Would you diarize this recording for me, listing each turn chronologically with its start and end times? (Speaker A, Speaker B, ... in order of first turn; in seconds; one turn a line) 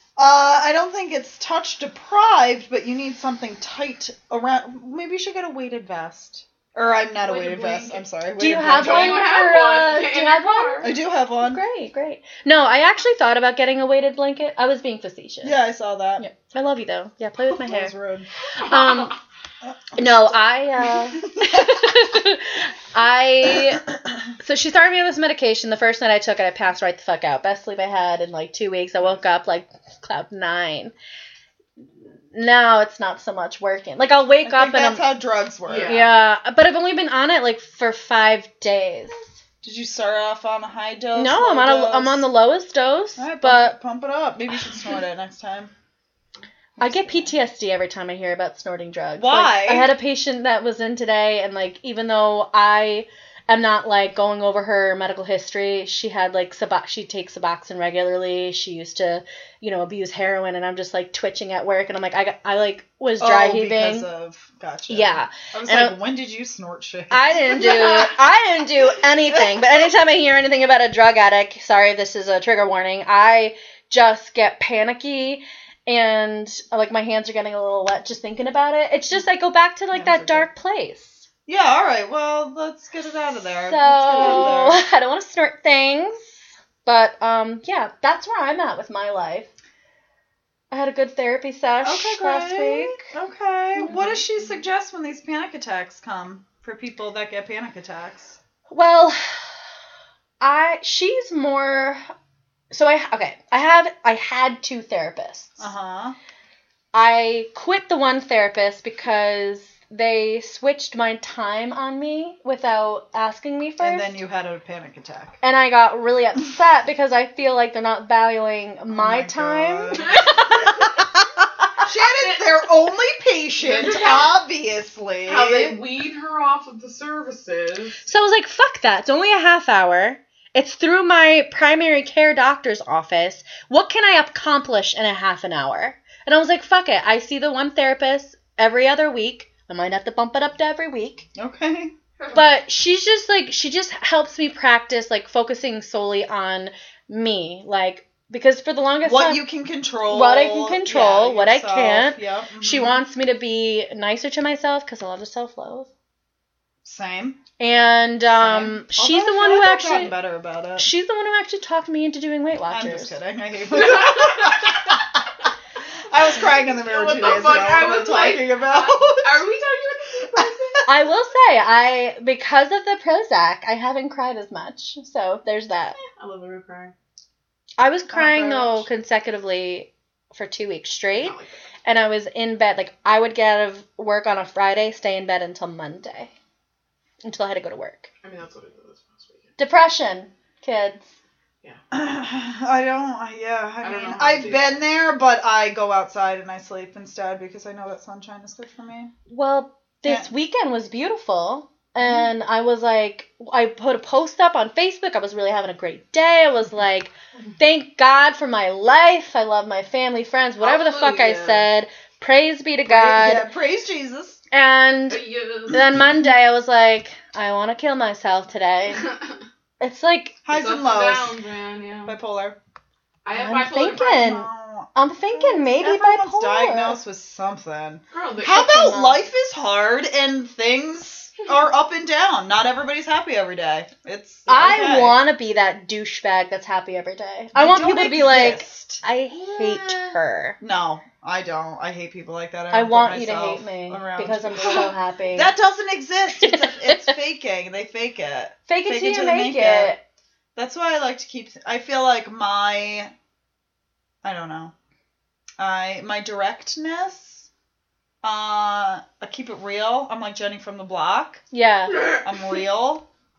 Speaker A: 0.2-9.3
Speaker B: 7.2-8.0
Speaker C: 8.4-15.6
Speaker B: 8.8-10.9
Speaker A: 10.8-11.6
Speaker A: 15.4-16.2
Speaker C: 16.2-17.9
Speaker A: 17.6-18.3
Speaker C: 18.6-19.2
Speaker B: 18.6-19.1
Speaker A: 19.8-20.4
Speaker C: 20.0-23.9
Speaker A: 21.3-21.8
Speaker C: 24.4-30.9
Speaker C: 32.3-35.1
Speaker A: 34.5-36.1
Speaker B: 35.7-36.1
Speaker C: 35.9-39.2
Speaker A: 39.6-42.2
Speaker C: 41.1-43.8
Speaker A: 43.2-45.7
Speaker A: 46.8-47.3
Speaker C: 46.8-64.1
Speaker A: 49.2-49.9
Speaker A: 63.2-68.2
Speaker C: 64.9-66.0
Speaker C: 67.1-81.3
Speaker A: 79.9-80.5
Speaker A: 81.5-84.8
Speaker C: 83.6-89.5
Speaker C: 90.7-93.1
Speaker A: 91.8-98.4
Speaker C: 93.8-94.1
Speaker C: 98.7-99.4
Speaker C: 100.4-102.0
Speaker C: 102.7-105.7
Speaker A: 105.6-106.2
Speaker C: 106.9-114.2
Speaker A: 113.8-115.4
Speaker C: 115.4-120.9
Speaker A: 118.9-120.7
Speaker B: 120.0-120.6
Speaker A: 121.8-125.8
Speaker B: 122.0-122.5
Speaker B: 123.6-124.3
Speaker B: 125.3-128.0
Speaker C: 128.1-141.3
Speaker A: 141.4-141.9
Speaker C: 142.3-149.4
Speaker A: 149.1-153.0
Speaker C: 150.1-155.9
Speaker A: 156.8-157.4
Speaker C: 157.6-160.2
Speaker A: 158.3-160.9
Speaker C: 160.8-163.2
Speaker A: 162.7-165.3
Speaker B: 163.8-164.8
Speaker A: 166.1-169.4
Speaker B: 166.7-170.8
Speaker A: 170.3-170.8
Speaker C: 170.9-176.0
Speaker B: 176.0-176.9
Speaker C: 177.8-186.3
Speaker A: 178.1-178.9
Speaker B: 181.1-181.6
Speaker C: 187.2-188.1
Speaker B: 188.2-189.5
Speaker C: 189.6-191.1
Speaker A: 191.9-199.1
Speaker B: 193.8-194.8
Speaker C: 199.3-213.5
Speaker A: 200.1-200.3
Speaker B: 210.6-211.7
Speaker A: 212.9-214.4
Speaker C: 214.5-219.1
Speaker B: 215.1-215.8
Speaker C: 219.8-220.4
Speaker A: 220.4-221.3
Speaker B: 220.5-222.2
Speaker A: 222.1-222.6
Speaker B: 223.2-224.3
Speaker C: 223.3-227.0
Speaker A: 224.1-235.2
Speaker B: 228.1-228.7
Speaker C: 228.5-229.2
Speaker C: 234.5-240.6
Speaker A: 237.6-239.0
Speaker A: 239.5-239.9
Speaker A: 240.6-249.9
Speaker C: 242.7-245.5
Speaker C: 246.4-247.1
Speaker C: 248.7-250.0
Speaker A: 250.6-253.1
Speaker A: 254.2-254.7
Speaker A: 255.6-257.5
Speaker A: 258.2-261.4
Speaker C: 261.5-262.1
Speaker A: 262.1-263.1